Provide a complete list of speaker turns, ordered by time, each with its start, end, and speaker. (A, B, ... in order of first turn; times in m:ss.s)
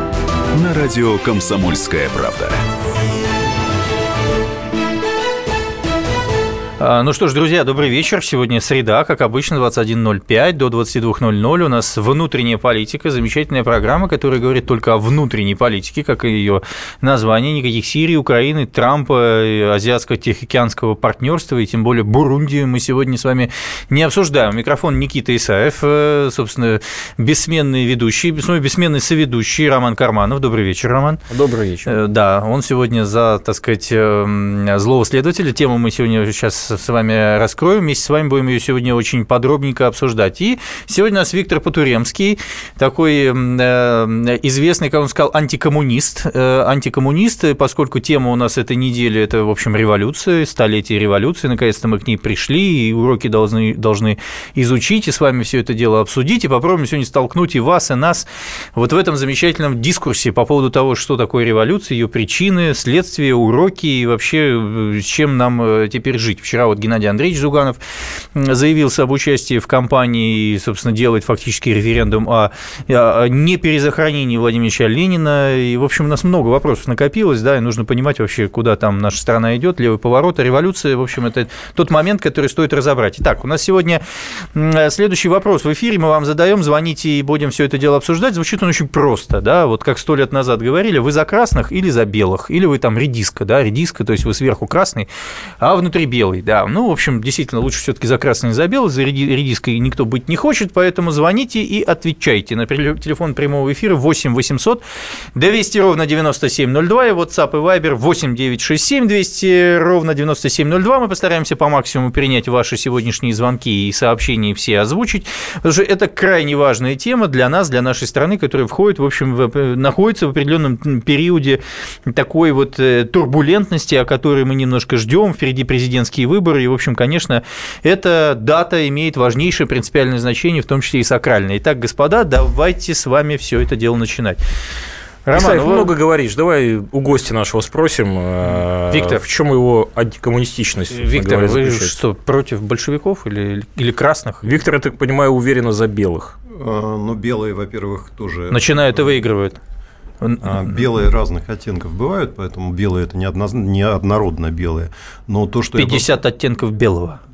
0:00.6-0:02.6 A
0:06.8-0:31.2 B
0:31.3-0:31.9 C
0:31.9-1:35.1 B
1:35.6-1:44.8 B
1:45.4-2:14.4 B
2:15.3-2:15.9 B
2:15.3-2:21.9 C
2:18.9-2:19.2 B
2:20.9-2:24.4 B
2:24.4-2:26.4 C
2:26.5-2:29.1 D
2:28.5-2:29.6 B
2:30.2-2:30.6 B
2:30.4-2:36.1 D
2:35.8-2:37.2 B